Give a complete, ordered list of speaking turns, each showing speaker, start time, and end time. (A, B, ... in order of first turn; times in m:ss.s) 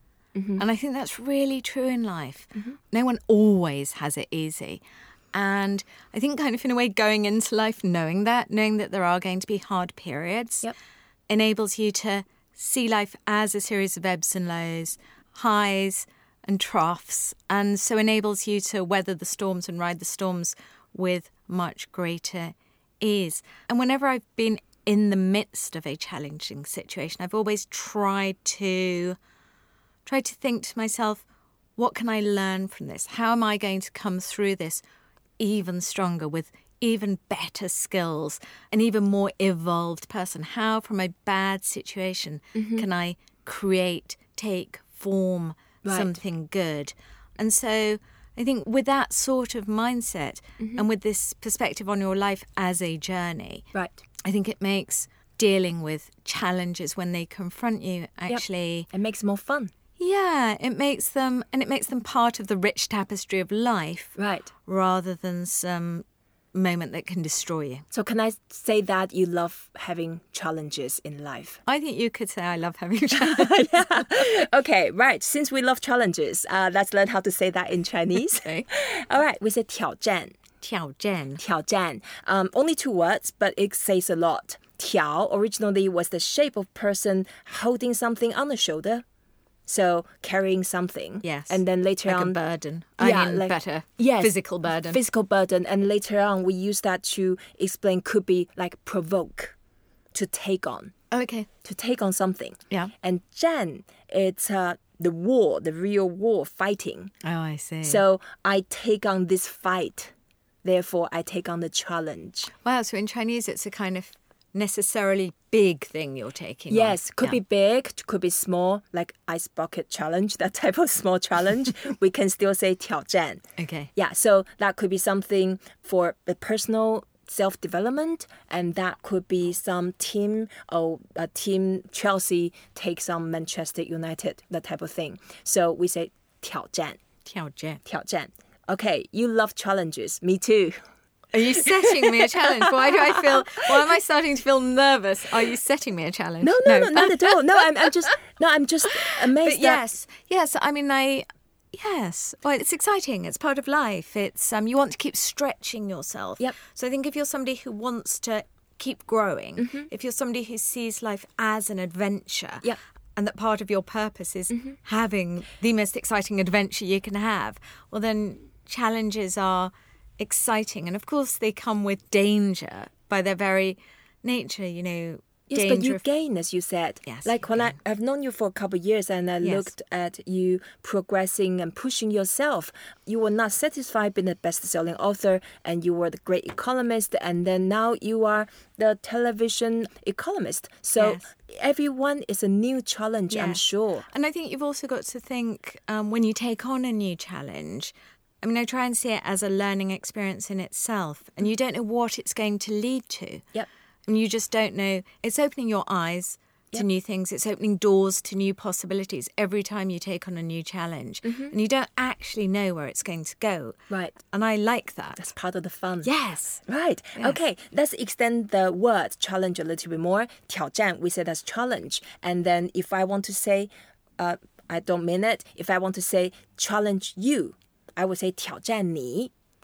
0:00.3-0:00.6 A
0:00.6-0:04.8 B
0:05.3-0:10.7 B
0:11.3-0:29.2 B
0:30.0-0:31.2 B
0:31.8-0:34.8 B
0:35.4-0:53.6 B
0:42.5-0:42.8 A
0:45.8-0:46.1 A
0:53.7-0:54.0 A
0:54.2-0:58.9 B
0:58.3-0:59.7 A
1:00.0-1:07.8 B
1:04.2-1:04.5 A
1:07.9-1:11.6 A
1:11.7-1:13.9 B
1:13.2-1:20.4 A
1:20.6-1:21.4 B
1:21.4-1:29.0 A
1:29.6-1:32.4 A
1:31.2-1:35.0 B
1:33.0-1:39.5 A
1:40.1-1:40.9 A
1:41.1-1:41.5 B
1:41.6-1:47.1 A
1:47.2-1:48.0 B
1:47.8-1:50.1 A
1:50.6-1:52.5 A
1:52.6-1:57.4 B
1:56.7-2:03.4 A
2:03.6-2:03.9 B
2:04.0-2:17.0 A
2:17.2-2:17.8 B
2:17.8-2:20.8 A
2:21.3-2:27.4 B
2:26.4-2:29.8 A
2:29.2-2:56.0 B
2:39.6-2:39.9 A
2:55.5-3:14.1 A
2:57.0-2:57.8 B
2:59.4-2:59.7 B
3:11.0-3:11.2 B
3:13.3-3:23.4 B
3:24.1-3:33.8 B
3:31.3-3:31.5 A
3:33.9-3:34.2 A
3:34.3-3:35.2 B
3:35.2-3:36.1 A
3:36.0-3:36.6 B
3:36.7-3:49.3 A